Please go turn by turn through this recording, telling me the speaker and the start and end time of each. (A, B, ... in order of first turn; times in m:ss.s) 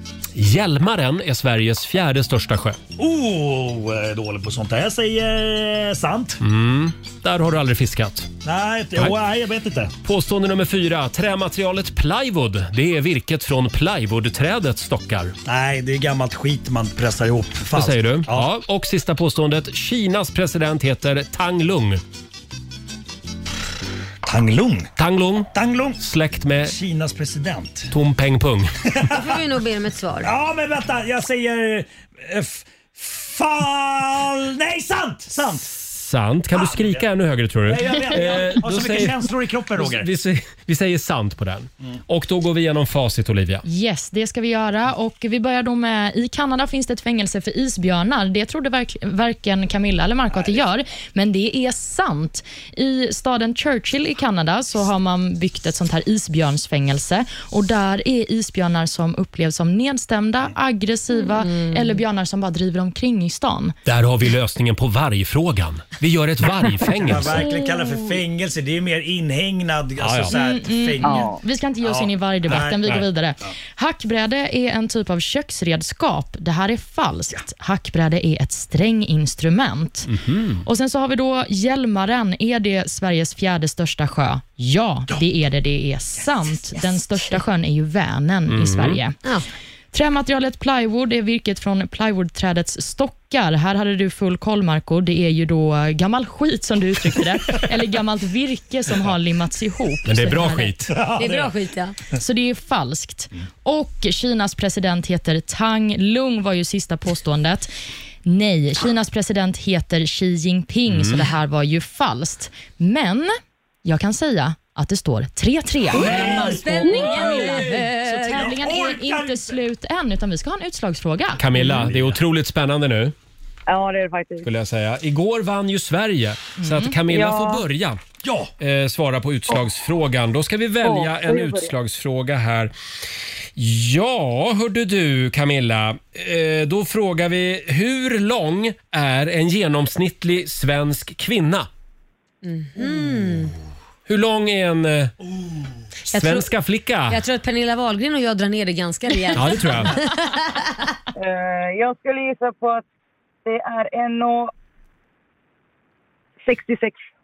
0:00.4-0:02.8 A
0:03.0-0:06.4 B
0:06.4-0:08.3 A
0:08.4-0:09.9 B
0:10.0-0:15.4 A
0:15.5-0:18.5 B
0:17.7-0:22.0 A
0:24.2-0:24.9 B
0:25.0-0:26.8 A
0:25.5-0:26.0 B
0:26.6-0:27.9 B
0:27.9-0:28.7 A
0:28.9-0:29.3 B
0:29.1-0:30.3 C
0:30.2-0:35.7 B
0:35.6-0:43.6 A
0:36.5-0:37.0 B
0:37.6-0:40.1 B
0:43.6-1:03.8 D
1:03.8-1:07.5 A
1:07.0-1:13.6 B
1:10.0-1:10.3 A
1:10.3-1:20.1 D
1:20.1-1:20.6 A
1:20.6-1:29.2 D
1:28.5-1:29.0 A
1:29.9-1:40.7 D
1:40.0-1:41.0 A
1:40.9-1:41.5 B
1:41.2-1:42.0 C
1:42.2-1:47.7 D
1:48.2-1:53.3 D
1:50.9-1:51.2 A
1:53.8-2:01.5 D
1:55.9-1:59.6 B
1:55.9-1:58.5 C
2:01.4-2:03.2 A
2:01.6-2:02.2 B
2:03.7-2:04.5 E
2:04.4-2:08.0 A
2:06.6-2:06.9 D
2:07.1-2:07.6 E
2:08.2-2:08.5 B
2:08.6-2:12.7 A
2:10.8-2:11.7 E
2:13.6-2:21.7 A
2:22.4-2:23.6 C
2:24.1-2:25.1 A
2:26.1-2:27.2 A
2:26.1-2:26.5 C
2:27.1-2:30.6 C
2:29.3-2:30.0 A
2:31.2-2:32.8 E
2:33.5-2:34.5 E
2:36.4-2:37.0 E